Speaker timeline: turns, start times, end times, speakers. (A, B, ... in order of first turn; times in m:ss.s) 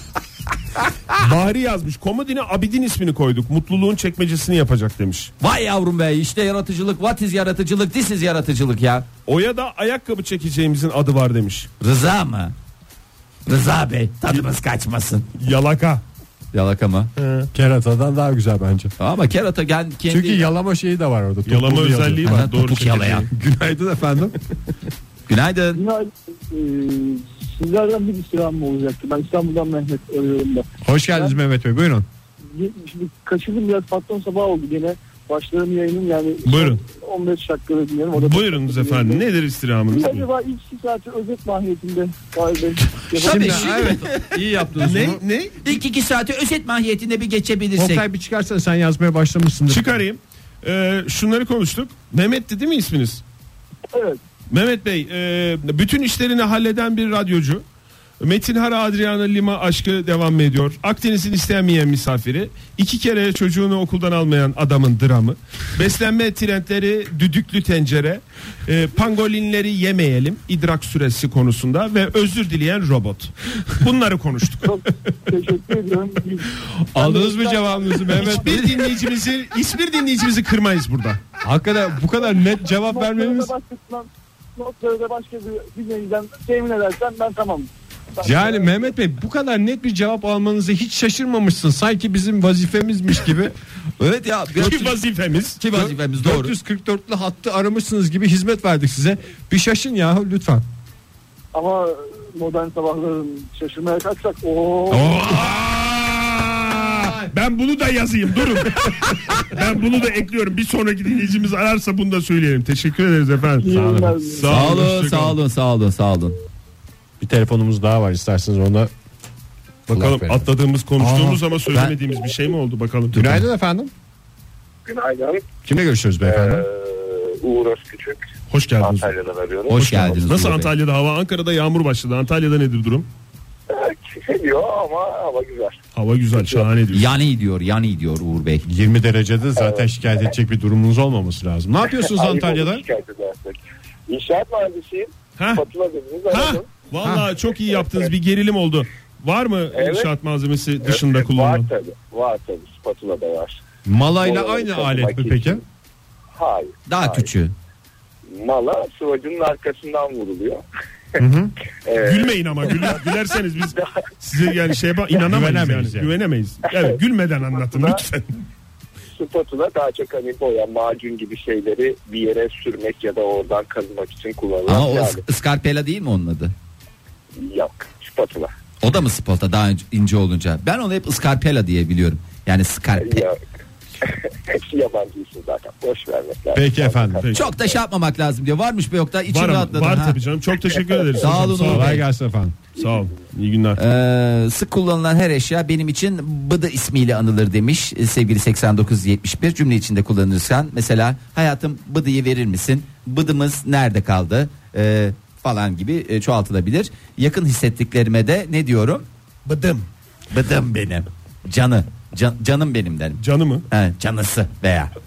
0:01.1-0:05.3 A
0:05.4-0:09.1 B
0:09.2-0:11.7 A
0:11.8-0:12.5 B
0:13.4-0:15.3 B
0:15.4-0:16.0 A
0:16.5-0:17.1 B
0:17.2-0:17.5 A
0:17.5-0:18.9 C
0:19.0-0:20.5 B
0:20.1-0:22.4 C
0:21.4-0:23.3 A
0:22.2-0:23.3 B
0:23.3-0:24.4 C
0:25.3-0:25.8 B
0:25.7-0:31.3 D
0:30.8-0:32.0 C
0:32.5-0:39.2 D
0:36.4-0:36.8 A
0:38.1-0:40.3 A
0:39.9-0:43.9 D
0:43.1-0:45.2 C
0:43.2-0:44.4 B
0:44.8-0:45.7 A
0:45.6-0:48.0 B
0:47.8-0:50.0 C
0:49.7-0:53.2 A
0:53.9-0:54.2 D
0:54.5-0:57.6 A
0:58.2-1:14.8 A
1:14.6-1:18.8 D
1:16.9-1:18.7 C
1:18.1-1:21.2 A
1:21.4-1:23.5 C
1:22.2-1:28.7 D
1:28.2-1:33.5 C
1:34.0-1:35.0 B
1:34.6-1:35.6 A
1:35.6-1:36.5 B
1:35.7-1:40.6 C
1:41.5-1:45.3 D
1:44.9-1:55.4 A
1:45.1-1:45.4 C
1:53.6-1:54.7 D
1:53.8-1:54.1 C
1:54.4-1:56.4 B
1:57.2-1:58.9 C
1:59.9-2:03.4 A
1:59.9-2:00.4 C
2:01.0-2:01.4 C
2:03.1-2:03.9 C
2:04.8-2:05.4 E
2:05.6-2:06.6 C
2:06.2-2:08.2 E
2:08.5-2:09.1 A
2:08.8-2:10.3 E
2:09.7-2:10.7 B
2:09.8-2:13.1 A
2:13.7-2:15.8 E
2:16.0-2:17.1 A
2:16.3-2:16.6 E
2:16.9-2:18.6 B
2:18.6-2:22.8 C
2:19.6-2:19.9 E
2:22.0-2:26.7 E
2:25.4-2:25.6 A
2:26.3-2:31.7 A
2:29.7-2:30.1 E
2:30.8-2:33.6 E
2:33.8-2:35.6 C
2:34.2-2:35.6 E
2:36.3-2:37.3 E
2:36.9-2:37.5 B
2:38.3-2:40.6 E
2:41.2-2:41.5 C
2:41.8-2:43.0 E
2:42.0-2:48.4 A
2:45.2-2:46.1 C
2:46.7-2:47.0 E
2:47.5-2:48.0 E
2:49.1-2:55.2 E
2:54.6-2:56.5 B
2:57.4-2:58.5 E
2:58.8-3:03.3 B
3:03.0-3:03.4 E
3:04.0-3:07.7 E
3:06.5-3:07.2 C
3:07.3-3:10.2 B
3:09.3-3:12.0 A
3:11.2-3:12.0 B
3:11.6-3:12.6 C
3:12.8-3:13.8 A
3:13.8-3:29.0 B
3:29.4-3:29.8 A
3:30.3-3:34.9 B
3:33.2-3:33.6 A